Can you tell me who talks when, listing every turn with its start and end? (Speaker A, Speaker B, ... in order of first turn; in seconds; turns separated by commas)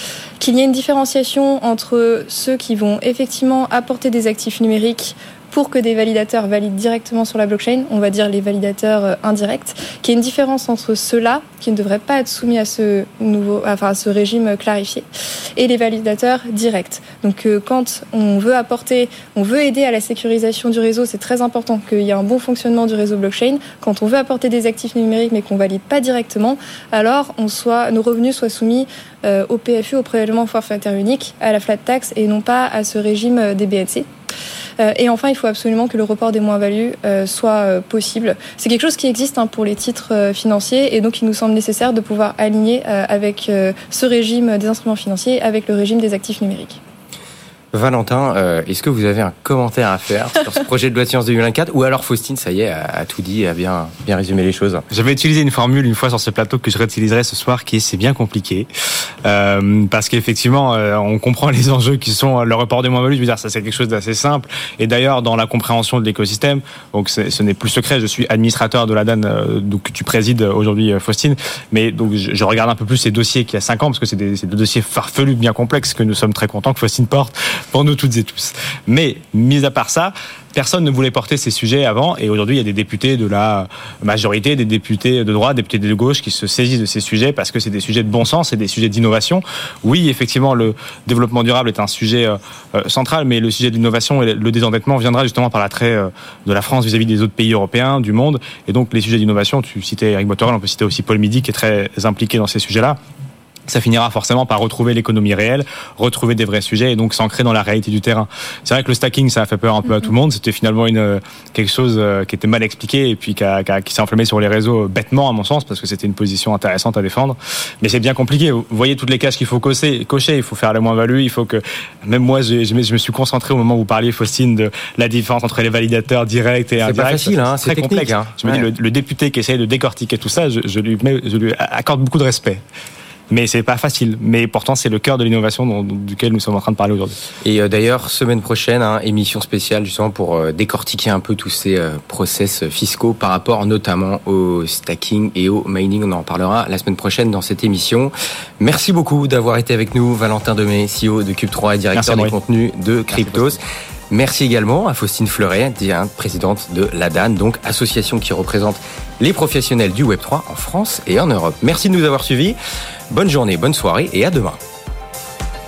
Speaker A: 0.4-15.1, Speaker A: 15.6-34.1, Speaker A: 34.8-46.8, Speaker B: 47.7-54.9, Speaker C: 54.9-58.7, Speaker C: 59.2-103.0, Speaker C: 103.7-132.6, Speaker B: 126.8-128.7, Speaker C: 133.3-137.2, Speaker B: 137.4-162.6, Speaker C: 151.9-152.3, Speaker C: 153.1-153.6, Speaker B: 163.1-164.6